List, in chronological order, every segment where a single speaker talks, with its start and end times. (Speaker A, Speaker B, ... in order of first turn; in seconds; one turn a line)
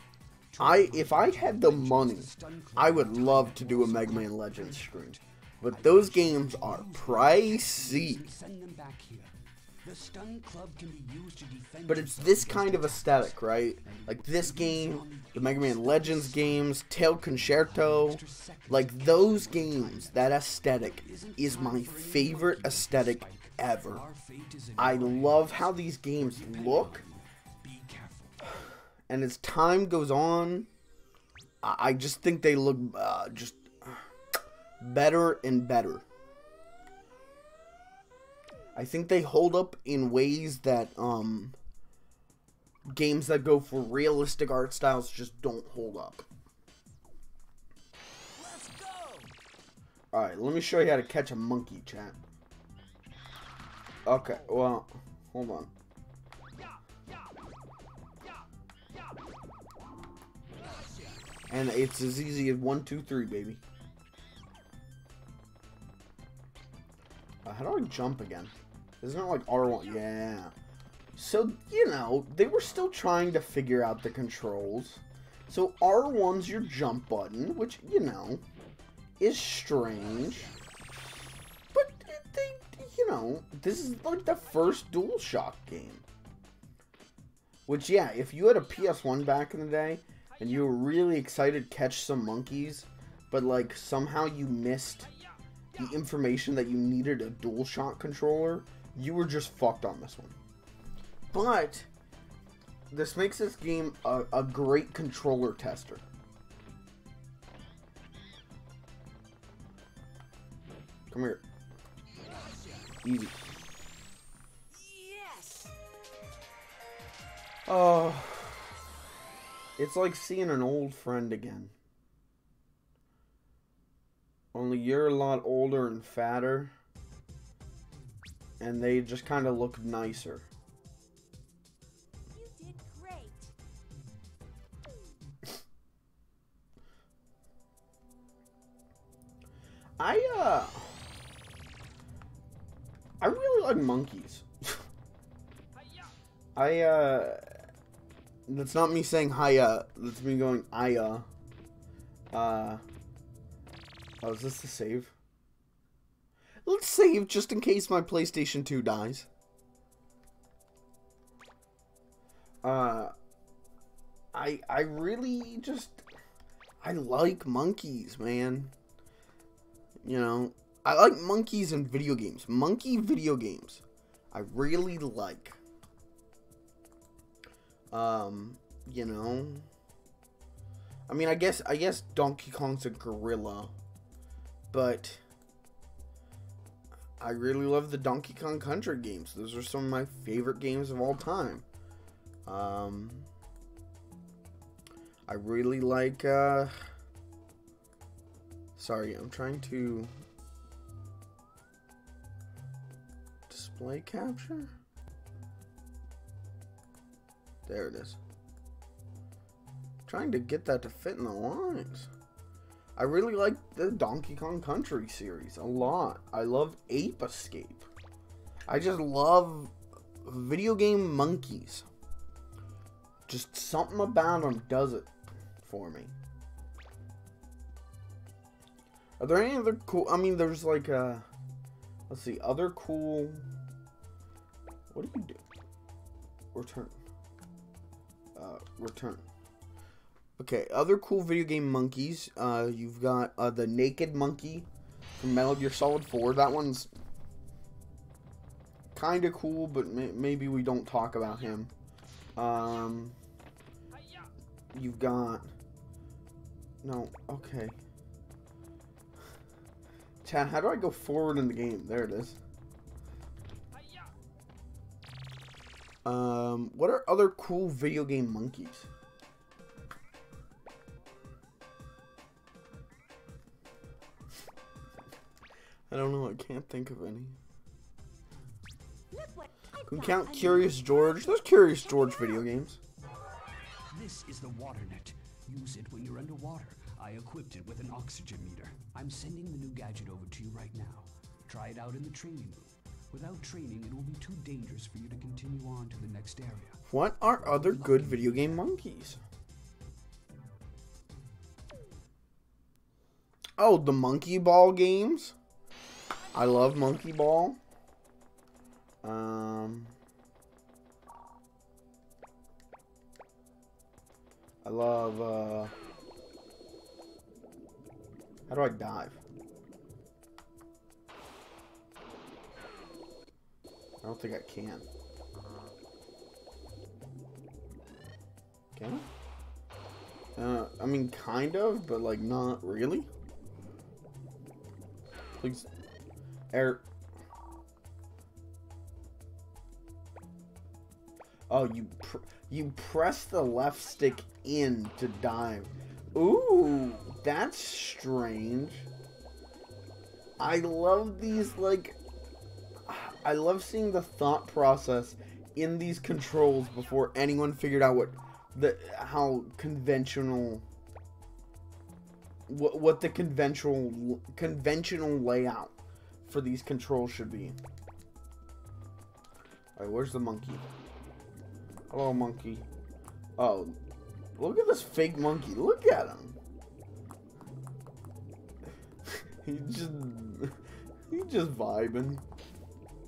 Speaker A: 0.5-28.4
Speaker B: 0.6-8.2
Speaker B: 11.9-24.0
Speaker B: 24.8-27.0
Speaker B: 29.1-30.7
Speaker B: 31.6-34.0
Speaker B: 34.8-36.0
Speaker B: 38.7-41.5
Speaker B: 42.9-46.2
Speaker A: 48.3-49.3
Speaker B: 50.1-52.2
Speaker B: 54.0-55.7
Speaker B: 61.5-63.6
Speaker B: 67.4-70.5
Speaker B: 71.2-78.4
Speaker B: 79.2-80.5
Speaker B: 81.7-86.0
Speaker B: 87.7-95.1
Speaker B: 95.8-100.3
Speaker B: 101.3-101.9
Speaker B: 102.9-106.0
Speaker B: 111.1-111.4
Speaker B: 113.0-113.4
Speaker A: 114.7-115.7
Speaker B: 117.7-118.7
Speaker B: 119.8-121.7
Speaker B: 124.5-126.7
Speaker B: 128.6-130.4
Speaker C: 132.3-133.5
Speaker B: 140.0-140.9
Speaker B: 143.2-144.8
Speaker B: 146.6-147.5
Speaker B: 148.5-151.3
Speaker B: 152.3-152.8
Speaker B: 154.2-155.1
Speaker B: 156.6-159.3
Speaker B: 162.6-163.1
Speaker B: 164.3-166.0
Speaker B: 166.8-168.7
Speaker B: 170.0-175.6
Speaker B: 177.9-179.7
Speaker B: 181.1-183.7
Speaker B: 184.7-185.2
Speaker B: 187.2-191.6
Speaker B: 192.4-193.3
Speaker B: 195.3-196.7
Speaker B: 198.8-200.1
Speaker B: 203.5-204.7
Speaker B: 207.7-208.2
Speaker B: 210.1-212.1
Speaker B: 213.0-217.9
Speaker B: 218.7-219.7
Speaker B: 220.2-221.8
Speaker B: 223.3-225.1
Speaker B: 225.6-226.1
Speaker B: 229.2-231.2
Speaker B: 232.1-233.4
Speaker B: 234.9-235.4
Speaker B: 236.5-236.9
Speaker B: 238.3-239.2
Speaker B: 240.4-246.9
Speaker B: 248.9-251.7
Speaker B: 252.3-253.2
Speaker B: 254.7-255.5
Speaker B: 256.8-257.8
Speaker B: 260.2-262.4
Speaker B: 266.0-268.9
Speaker B: 275.9-277.4
Speaker C: 279.1-282.4
Speaker B: 279.9-282.8
Speaker A: 283.9-296.8
Speaker B: 296.9-299.2
Speaker A: 297.4-298.6
Speaker B: 303.6-305.3
Speaker B: 306.3-307.6
Speaker B: 309.0-309.9
Speaker B: 314.6-315.7
Speaker B: 318.5-319.2
Speaker B: 324.0-324.9
Speaker B: 328.7-329.0
Speaker B: 330.4-333.1
Speaker B: 335.4-335.7
Speaker B: 336.5-336.8
Speaker B: 341.5-348.9
Speaker B: 350.4-352.0
Speaker B: 352.9-360.6
Speaker B: 362.5-367.6
Speaker B: 369.8-370.7
Speaker B: 371.9-372.6
Speaker B: 373.4-373.8
Speaker B: 374.4-376.4
Speaker B: 379.1-380.6
Speaker B: 381.1-382.2